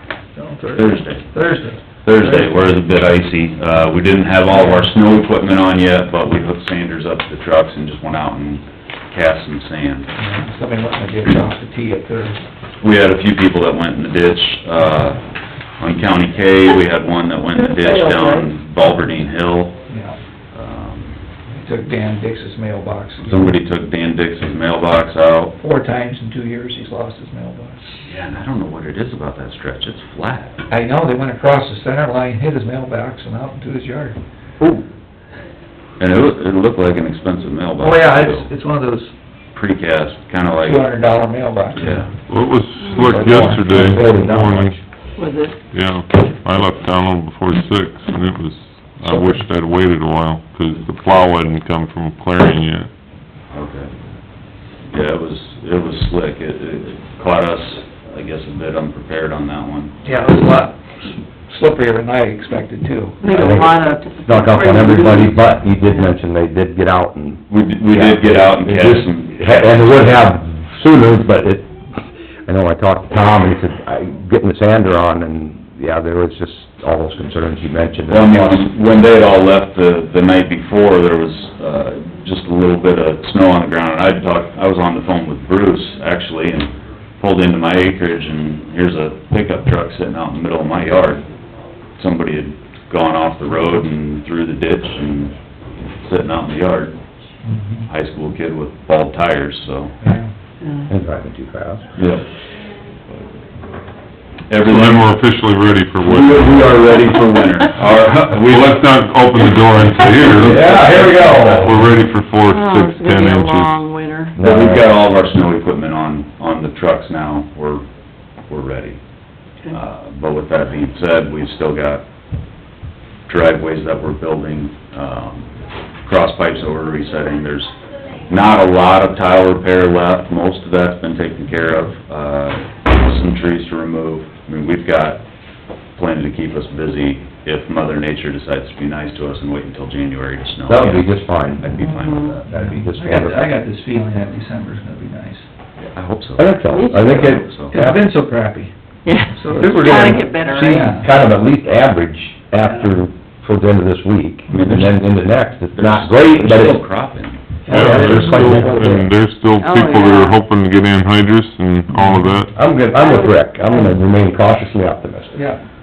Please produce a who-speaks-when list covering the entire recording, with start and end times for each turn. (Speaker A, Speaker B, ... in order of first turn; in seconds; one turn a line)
Speaker A: 0.3-2.7
Speaker B: 0.8-1.4
Speaker B: 2.0-10.1
Speaker A: 4.5-4.9
Speaker A: 10.2-12.4
Speaker B: 12.8-19.8
Speaker C: 17.7-18.4
Speaker A: 19.9-20.2
Speaker B: 20.5-21.2
Speaker A: 21.5-23.6
Speaker B: 23.2-25.6
Speaker A: 25.6-28.0
Speaker B: 28.1-30.6
Speaker A: 30.7-34.2
Speaker B: 36.0-38.5
Speaker A: 37.8-39.1
Speaker B: 39.5-41.0
Speaker A: 40.6-42.1
Speaker B: 41.7-42.1
Speaker D: 42.3-44.8
Speaker C: 42.8-43.1
Speaker A: 42.9-43.8
Speaker E: 43.1-44.8
Speaker C: 45.2-45.6
Speaker D: 45.7-52.9
Speaker B: 53.5-53.9
Speaker B: 54.9-60.0
Speaker A: 60.0-63.4
Speaker C: 63.2-66.1
Speaker E: 63.3-78.7
Speaker B: 67.5-70.3
Speaker B: 78.1-91.3
Speaker B: 92.0-97.0
Speaker A: 97.4-97.9
Speaker B: 97.9-100.0
Speaker A: 100.0-100.3
Speaker C: 100.6-100.9
Speaker E: 100.9-102.0
Speaker B: 102.0-102.3
Speaker B: 104.5-105.1
Speaker D: 104.6-106.8
Speaker B: 106.0-108.8
Speaker D: 107.8-113.8
Speaker B: 110.3-111.3
Speaker E: 110.3-111.9
Speaker C: 112.5-114.3
Speaker E: 114.4-114.9
Speaker B: 114.4-117.9
Speaker B: 118.5-119.0
Speaker B: 119.7-122.1
Speaker B: 123.3-125.5
Speaker B: 126.0-127.8
Speaker B: 128.3-135.2
Speaker B: 135.9-142.4
Speaker E: 140.7-141.7
Speaker C: 141.8-142.4
Speaker A: 142.4-145.5
Speaker E: 142.5-143.6
Speaker B: 145.8-147.8
Speaker E: 146.4-148.0
Speaker C: 146.7-147.2
Speaker A: 147.0-148.8
Speaker C: 149.1-151.1
Speaker A: 149.3-151.1
Speaker E: 150.8-156.8
Speaker A: 154.5-154.8
Speaker B: 154.5-155.1
Speaker B: 155.7-157.7
Speaker A: 157.7-158.9
Speaker D: 157.7-162.5
Speaker E: 157.7-159.1
Speaker C: 159.6-160.4
Speaker A: 161.9-162.2
Speaker E: 162.6-165.4
Speaker C: 162.9-164.0
Speaker A: 165.3-165.6